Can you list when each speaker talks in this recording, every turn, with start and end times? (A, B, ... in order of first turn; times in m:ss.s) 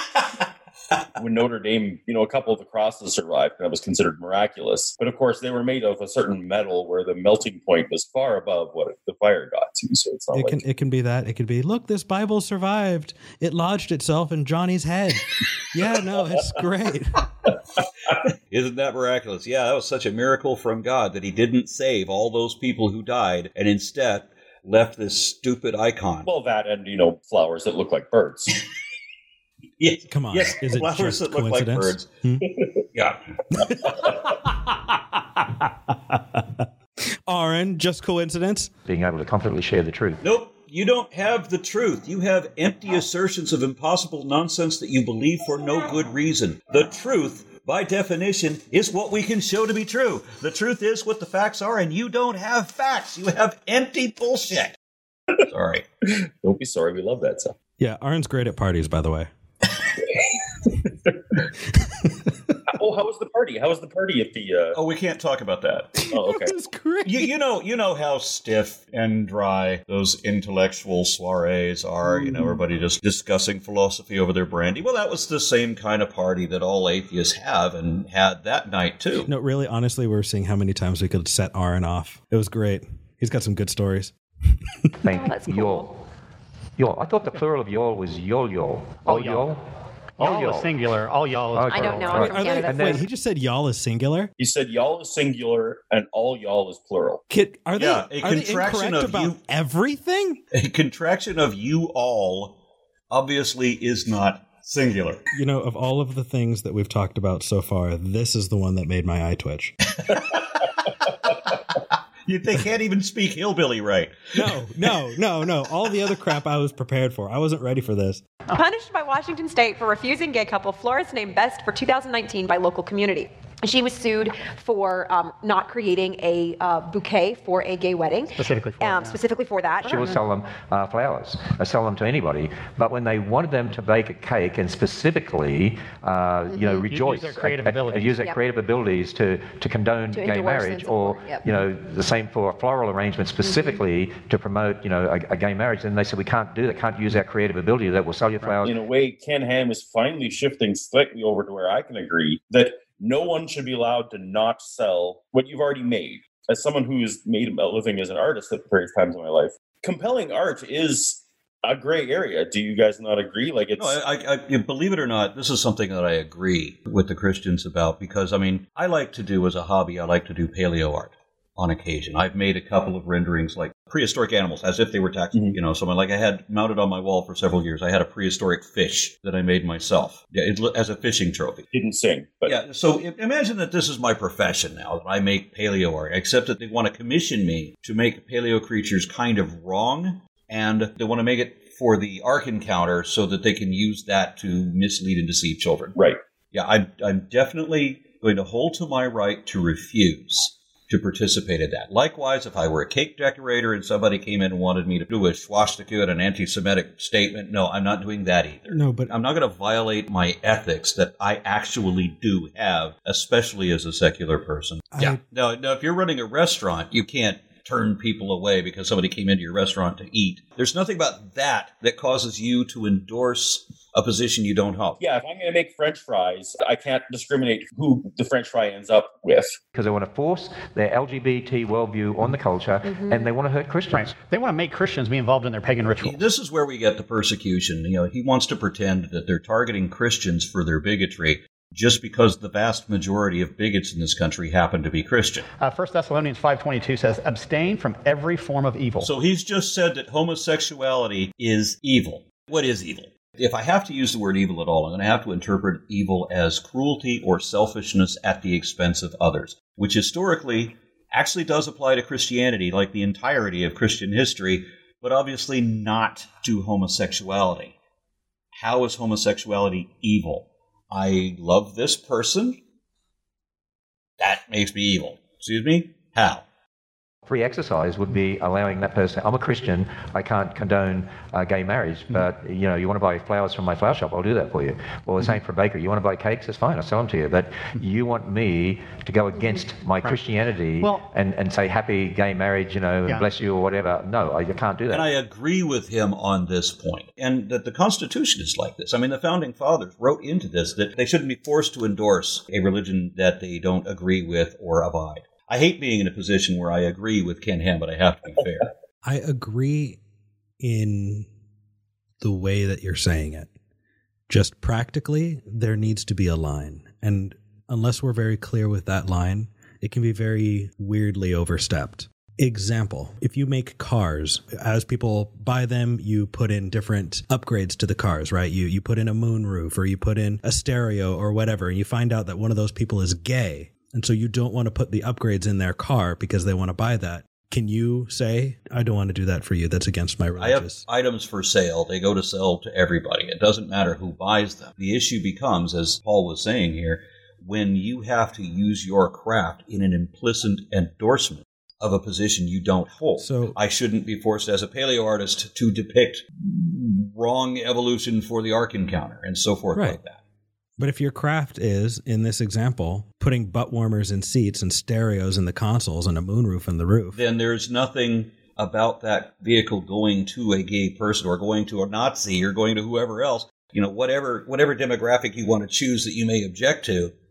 0:01.2-0:10.6 A
0:10.3-0:17.2 B
0:18.5-0:26.3 C
0:26.2-0:28.5 A
0:29.8-0:32.1 C
0:30.1-0:32.4 B
0:32.9-0:33.9 C
0:33.8-0:34.5 B
0:35.4-0:36.6 B
0:37.3-0:38.7 B
0:38.8-0:40.2 D
0:40.2-0:54.8 C
0:55.5-0:55.9 C
0:56.2-0:57.5 A
0:57.8-0:59.3 B
1:01.7-1:02.2 B
1:02.7-1:04.8 A
1:04.7-1:06.0 C
1:06.1-1:06.5 A
1:06.1-1:07.3 B
1:07.0-1:19.3 C
1:12.1-1:12.6 B
1:19.2-1:24.1 B
1:25.0-1:25.9 D
1:25.1-1:25.9 E
1:26.8-1:29.6 D
1:29.0-1:29.5 F
1:30.2-1:32.6 F
1:30.2-1:30.7 D
1:31.5-1:33.0 D
1:31.7-1:33.0 E
1:32.2-1:34.3 B
1:34.4-1:37.2 A
1:37.3-1:40.4 B
1:37.7-1:39.4 C
1:40.5-1:42.5 C
1:43.1-1:45.2 C
1:45.3-1:49.7 B
1:52.2-1:54.4 C
1:54.3-1:58.2 B
1:58.5-2:10.2 E
2:08.4-2:09.2 F
2:09.8-2:28.7 D
2:16.5-2:16.9 E
2:16.9-2:18.2 F
2:20.1-2:21.5 E
2:23.4-2:23.8 E
2:28.6-2:44.0 A
2:43.8-3:01.6 C
3:01.7-3:02.6 A
3:02.4-3:16.0 C
3:16.5-3:45.0 C
3:28.7-3:29.1 B
3:34.9-3:35.2 B
3:45.0-3:49.6 A
3:49.7-3:54.1 D
3:52.8-3:53.3 E
3:53.9-3:56.2 F
3:56.0-4:05.4 C
4:05.6-4:09.1 F
4:09.0-4:27.7 C
4:28.5-4:32.6 C
4:34.2-4:36.4 C
4:37.3-4:55.1 D
4:49.4-4:49.6 E
4:50.8-4:51.1 F
4:54.9-5:08.7 C
5:09.0-5:10.0 B
5:10.6-5:11.3 B
5:12.2-5:13.5 B
5:14.3-5:40.8 B
5:40.4-6:00.2 C
5:53.2-5:53.6 B
6:00.8-6:07.2 B
6:07.1-6:17.1 C